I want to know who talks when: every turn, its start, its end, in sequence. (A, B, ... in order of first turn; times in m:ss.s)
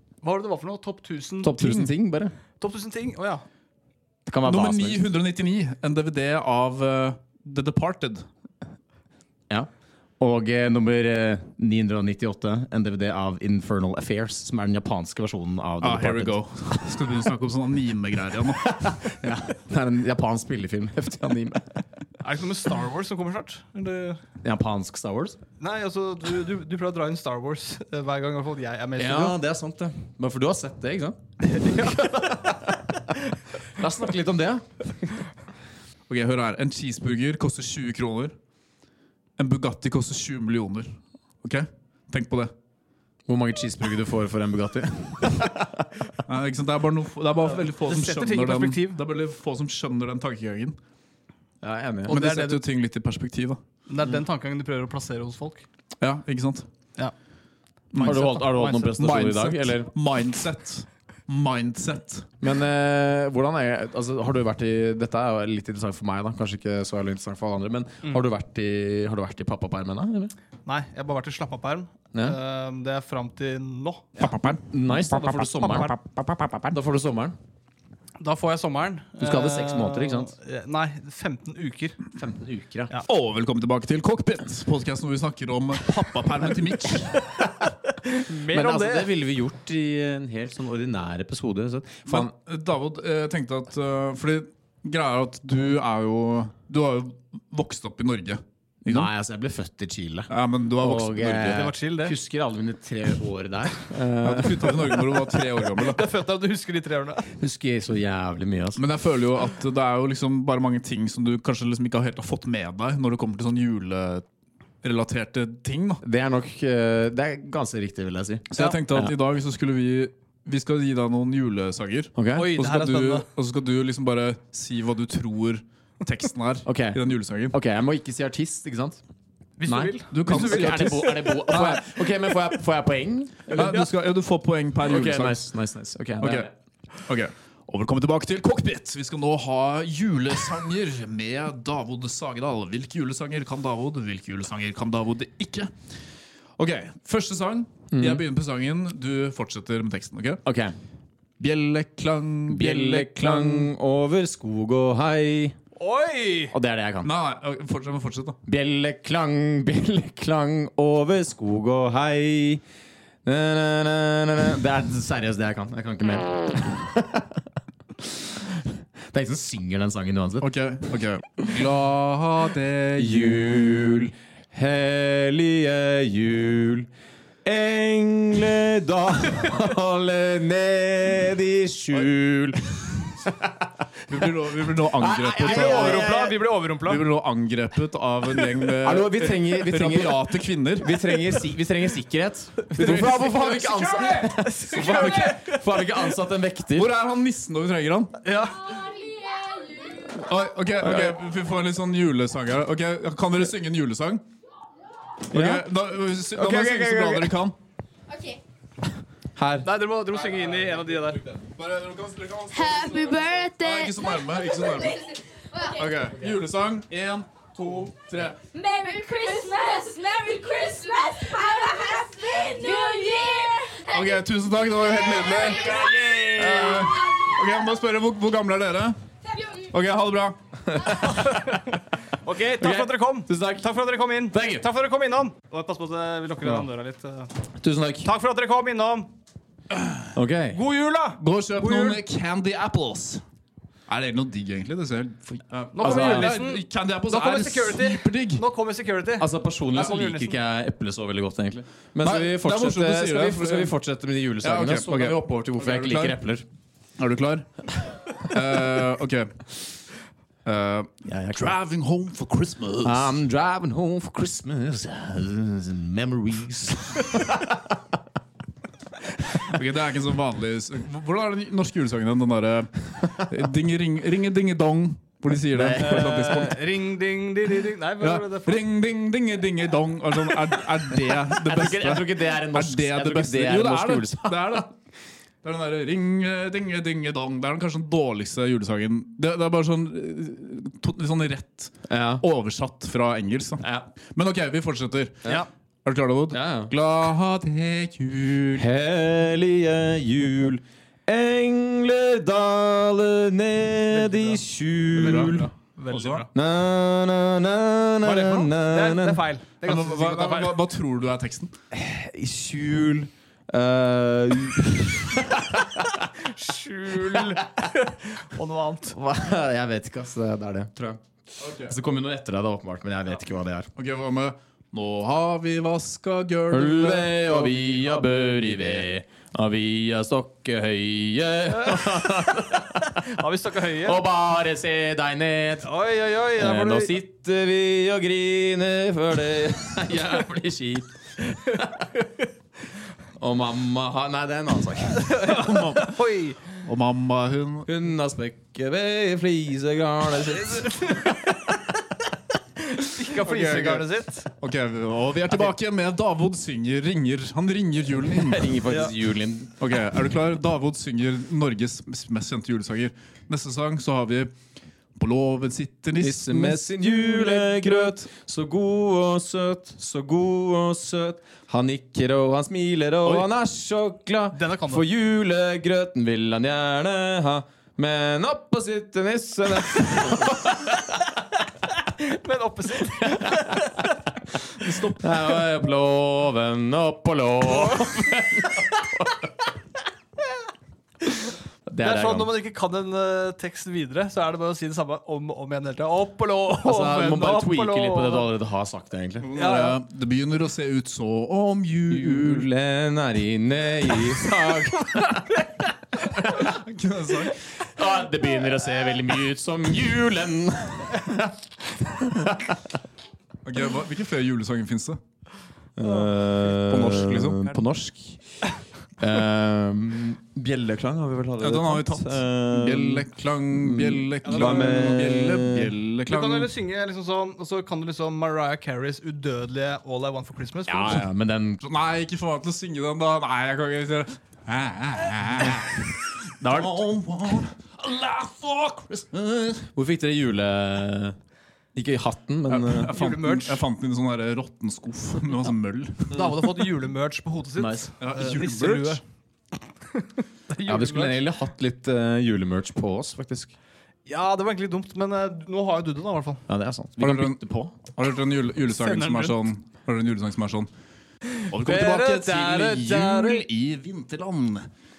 0:00.2-0:01.6 A
0:01.4-0:02.4 B
0:01.5-0:01.9 C
0:02.6-0:03.4 A
0:04.2-0:05.0 B
0:04.4-0:08.3 C
0:09.5-0:16.4 B
0:15.8-0:18.8 C
0:18.7-0:21.8 B
0:22.2-0:24.2 A
0:24.4-0:25.4 B
0:25.6-0:29.4 A
0:29.0-0:32.6 B
0:31.5-0:32.4 A
0:33.8-0:34.6 B
0:36.1-0:38.4 C
0:39.4-0:42.5 C
0:43.3-0:45.9 B
0:46.2-0:50.8 C
0:47.7-0:49.0 A
0:51.6-0:52.2 B
0:52.1-0:52.6 A
0:52.1-0:53.6 C
0:53.9-0:55.6 A
0:56.0-0:56.7 C
0:57.9-1:02.3 C
0:58.0-0:58.9 A
0:58.0-0:59.9 B
1:02.4-1:10.3 B
1:10.6-1:14.1 A
1:14.2-1:15.9 C
1:14.2-1:17.4 B
1:18.2-1:22.0 A
1:19.2-1:20.3 B
1:22.2-1:22.9 B
1:23.1-1:27.2 C
1:27.3-1:29.1 A
1:28.3-1:32.3 B
1:32.1-1:39.1 C
1:38.8-1:45.0 B
1:40.3-1:41.7 C
1:41.4-1:42.2 A
1:44.2-1:46.0 C
1:45.8-1:47.3 A
1:47.4-1:48.8 B
1:48.8-1:54.2 C
1:54.8-1:56.0 C
1:56.0-1:59.1 B
1:58.5-2:07.6 C
2:02.1-2:02.5 B
2:02.3-2:03.3 A
2:06.6-2:07.0 B
2:07.5-2:09.0 B
2:09.6-2:11.5 A
2:09.7-2:13.7 B
2:10.1-2:11.8 C
2:13.5-2:13.8 A
2:13.5-2:15.4 C
2:14.8-2:16.5 B
2:16.2-2:16.5 C
2:17.0-2:25.7 C
2:26.6-2:30.4 C
2:27.9-2:28.2 B
2:30.4-2:30.8 B
2:31.4-2:33.7 C
2:32.5-2:35.6 B
2:35.8-2:36.6 A
2:36.5-2:37.1 B
2:37.0-2:38.4 C
2:38.4-2:42.6 B
2:43.2-2:47.4 B
2:48.0-2:50.5 B
2:50.4-2:53.6 C
2:53.0-2:56.9 B
2:57.4-3:03.7 B
3:04.1-3:06.1 C
3:04.9-3:06.4 B
3:05.4-3:07.0 A
3:06.8-3:11.4 C
3:08.8-3:16.9 B
3:12.7-3:15.4 C
3:12.8-3:15.6 A
3:16.8-3:18.2 C
3:18.2-3:18.8 A
3:18.9-3:20.2 D
3:20.1-3:24.2 C
3:20.8-3:21.2 B
3:25.3-3:27.6 C
3:25.3-3:25.6 B
3:26.3-3:27.4 B
3:29.4-3:29.7 B
3:29.6-3:31.2 A
3:31.3-3:35.0 C
3:32.5-3:34.9 D
3:35.7-3:38.4 C
3:38.5-3:44.1 D
3:43.9-3:49.0 C
3:45.1-3:45.9 D
3:45.5-3:47.0 B
3:49.7-3:50.4 C
3:50.7-3:51.4 B
3:51.0-3:57.3 A
3:52.6-3:53.7 B
3:54.2-3:54.7 B
3:57.6-3:58.1 B
3:58.0-3:59.1 A
3:59.8-4:00.1 C
4:00.1-4:00.6 B
4:00.5-4:02.0 A
4:01.2-4:03.2 C
4:03.9-4:08.4 C
4:05.7-4:10.4 A
4:05.8-4:06.3 B
4:09.2-4:16.4 B
4:12.0-4:13.8 C
4:14.4-4:16.2 C
4:17.0-4:19.4 C
4:20.4-4:23.2 C
4:21.1-4:21.5 B
4:22.8-4:27.8 B
4:29.3-4:36.6 C
4:35.5-4:36.3 B
4:35.8-4:38.6 A
4:38.0-4:44.7 C
4:41.3-4:44.6 B
4:45.4-4:58.7 C
4:51.9-4:52.2 B
4:53.6-4:53.9 B
4:56.3-4:56.7 B
4:58.6-5:05.5 B
5:04.1-5:04.4 A
5:04.9-5:06.2 C
5:05.1-5:06.3 A
5:06.3-5:09.2 B
5:08.0-5:10.6 A
5:09.6-5:11.5 C
5:11.7-5:16.0 B
5:16.2-5:19.0 A
5:17.0-5:17.4 B
5:18.9-5:21.0 B
5:21.4-5:21.7 C
5:21.6-5:23.7 B
5:23.8-5:28.8 C
5:26.5-5:33.0 B
5:31.5-5:34.0 A
5:33.7-5:35.7 B
5:35.6-5:37.0 A
5:36.4-5:41.9 B
5:43.2-5:45.1 B
5:45.0-5:46.4 A
5:45.2-5:46.0 C
5:46.5-5:47.7 C
5:47.6-5:51.0 B
5:50.4-5:51.5 A
5:52.7-5:54.3 A
5:53.2-5:58.6 C
5:58.1-5:59.6 B
5:58.7-5:58.9 A
5:59.6-6:04.3 C
6:05.0-6:06.6 C
6:06.0-6:21.1 B
6:14.3-6:14.9 A
6:21.8-6:23.9 A
6:23.0-6:23.5 B
6:24.6-6:25.0 A
6:25.0-6:29.3 B
6:31.6-6:32.3 B
6:31.8-6:38.3 A
6:36.6-6:39.3 B
6:39.2-6:42.5 C
6:39.3-6:39.8 A
6:41.9-6:45.5 B
6:46.3-6:47.4 C
6:47.6-6:52.7 B
6:53.4-6:55.0 C
6:55.8-6:58.2 B
6:56.6-6:57.4 C
6:59.0-7:05.8 B
7:01.4-7:06.5 C
7:04.2-7:04.8 A
7:06.1-7:11.1 A
7:10.7-7:11.6 B
7:11.6-7:19.6 C
7:16.4-7:17.5 B
7:19.6-7:21.2 B
7:21.8-7:23.0 B
7:22.5-7:26.2 C
7:22.9-7:23.6 A
7:26.1-7:29.0 A
7:27.6-7:27.9 B
7:28.0-7:29.0 C
7:29.9-7:31.2 A
7:30.6-7:33.5 B
7:34.1-7:36.4 A
7:36.5-7:37.7 B
7:37.0-7:40.7 C
7:38.8-7:39.4 A
7:41.4-7:43.4 A
7:41.5-7:44.7 C